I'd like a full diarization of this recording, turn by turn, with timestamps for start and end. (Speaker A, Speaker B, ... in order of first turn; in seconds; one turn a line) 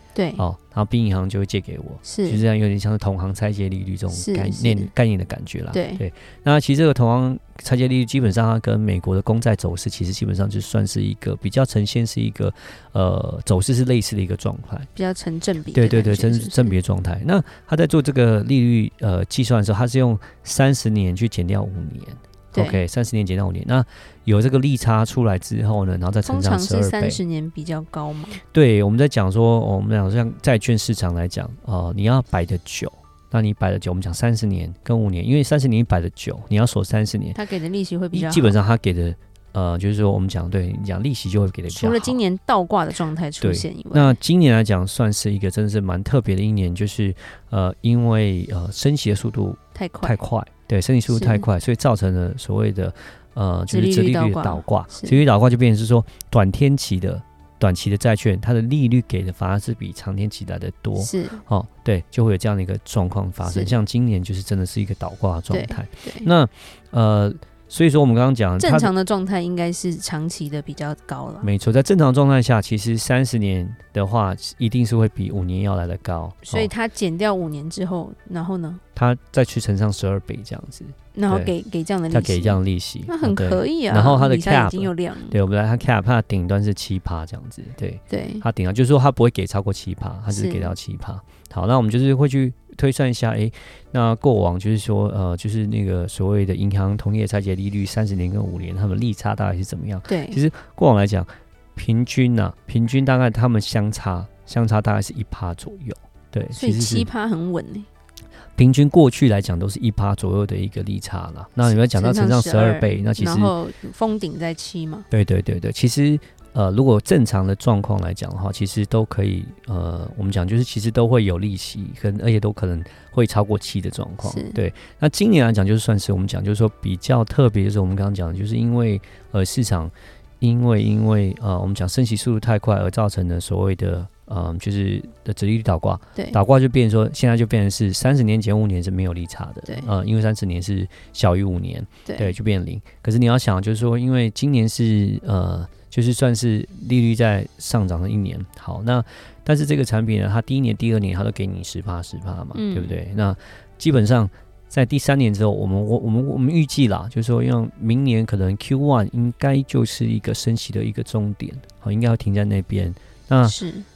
Speaker A: 0.1-0.4
Speaker B: 0.4-14.9
Speaker A: 2.0-2.4
Speaker A: 4.1-4.9
Speaker A: 5.7-6.0
Speaker A: 15.0-16.8
Speaker B: 15.7-27.2
Speaker A: 22.5-22.8
Speaker A: 26.2-28.4
Speaker B: 28.5-37.4
Speaker A: 37.4-38.6
Speaker B: 38.1-42.2
Speaker A: 41.7-44.2
Speaker B: 43.4-68.9
Speaker A: 49.8-50.2
Speaker A: 51.1-51.5
Speaker A: 53.7-55.2
Speaker A: 61.0-61.4
Speaker A: 63.4-63.8
Speaker A: 65.5-66.3
Speaker A: 68.6-71.5
Speaker B: 71.4-76.7
Speaker A: 76.5-78.8
Speaker B: 79.0-81.5
Speaker A: 81.1-85.4
Speaker B: 82.1-107.1
Speaker A: 88.1-88.4
Speaker A: 90.3-90.8
Speaker A: 100.1-100.4
Speaker A: 106.5-107.9
Speaker B: 108.6-113.5
Speaker A: 111.6-115.1
Speaker B: 115.1-163.6
Speaker A: 124.2-124.6
Speaker A: 142.1-142.3
Speaker A: 152.5-153.0
Speaker A: 163.4-163.9